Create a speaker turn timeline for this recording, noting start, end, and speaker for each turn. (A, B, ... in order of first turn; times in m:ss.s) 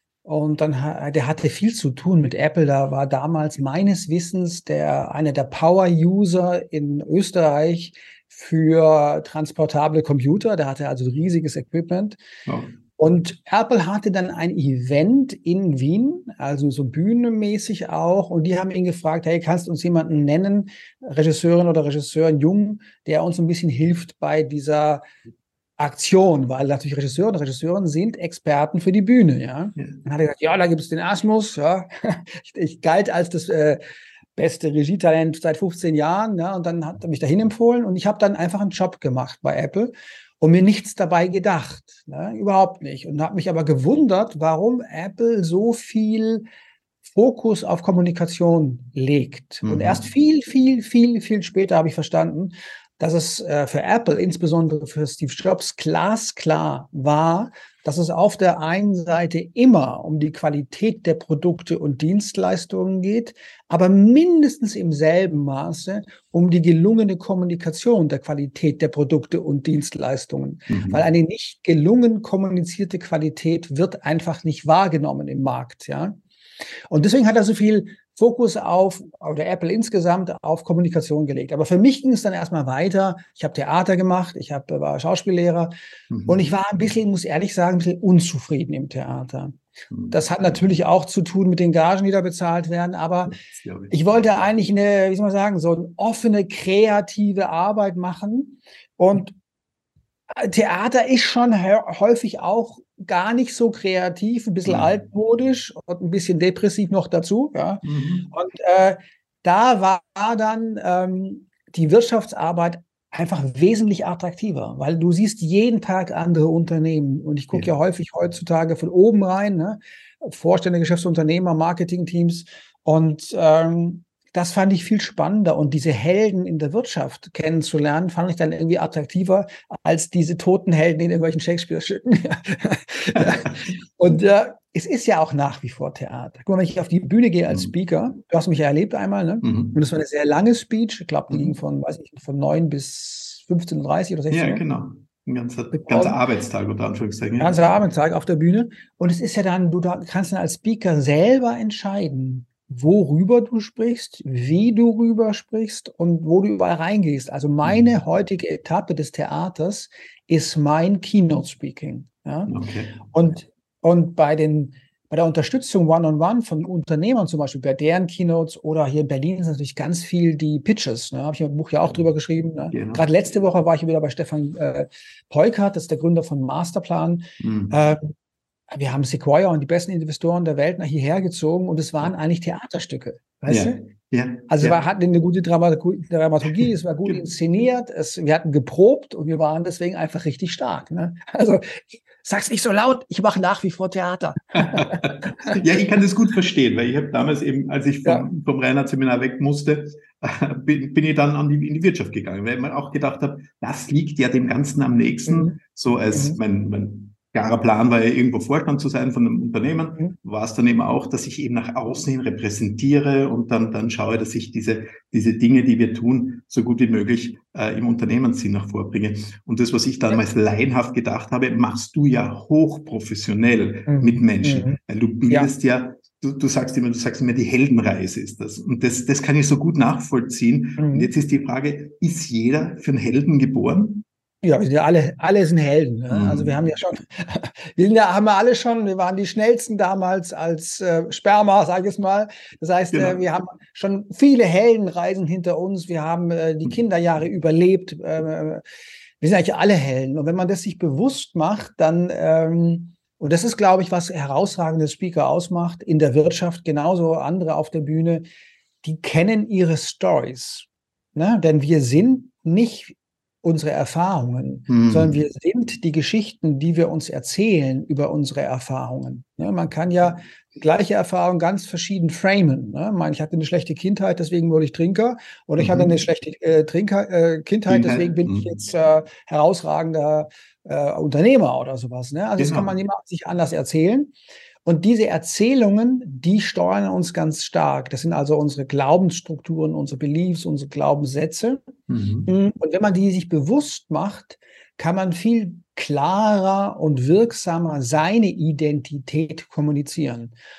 0:00.2-0:12.2 A
0:12.5-0:12.8 B
0:13.0-0:25.0 A
0:25.8-0:33.8 A
0:34.4-0:46.5 A
0:47.0-1:16.2 A
0:49.6-0:50.0 B
1:10.7-1:11.0 B
1:16.9-1:25.7 A
1:26.1-1:26.4 B
1:26.3-1:29.6 A
1:29.9-1:30.5 B
1:30.1-1:33.3 A
1:33.3-1:33.9 B
1:33.9-1:39.3 A
1:40.3-2:24.6 A
1:47.8-1:48.3 B
2:19.4-2:19.8 B
2:24.3-2:27.7 B
2:25.7-2:26.2 A
2:27.4-2:42.5 A
2:37.6-2:38.0 B
2:42.5-2:43.0 B
2:43.1-2:58.1 A
2:52.7-2:53.0 B
2:57.4-2:57.8 B
2:58.7-3:03.8 A
3:03.5-3:04.8 B
3:04.5-3:15.6 A
3:14.5-3:54.0 B
3:25.3-3:25.6 A
3:26.1-3:26.4 A
3:43.9-3:44.8 A
3:50.8-3:51.1 A
3:54.4-4:08.6 A
3:56.1-3:56.6 B
4:02.9-4:03.2 B
4:09.2-4:18.2 A
4:18.8-4:51.6 A
4:24.7-4:25.2 B
4:35.6-4:35.9 B
4:37.7-4:38.6 B
4:42.4-4:42.7 B
4:51.9-4:52.3 B
4:52.3-5:00.3 A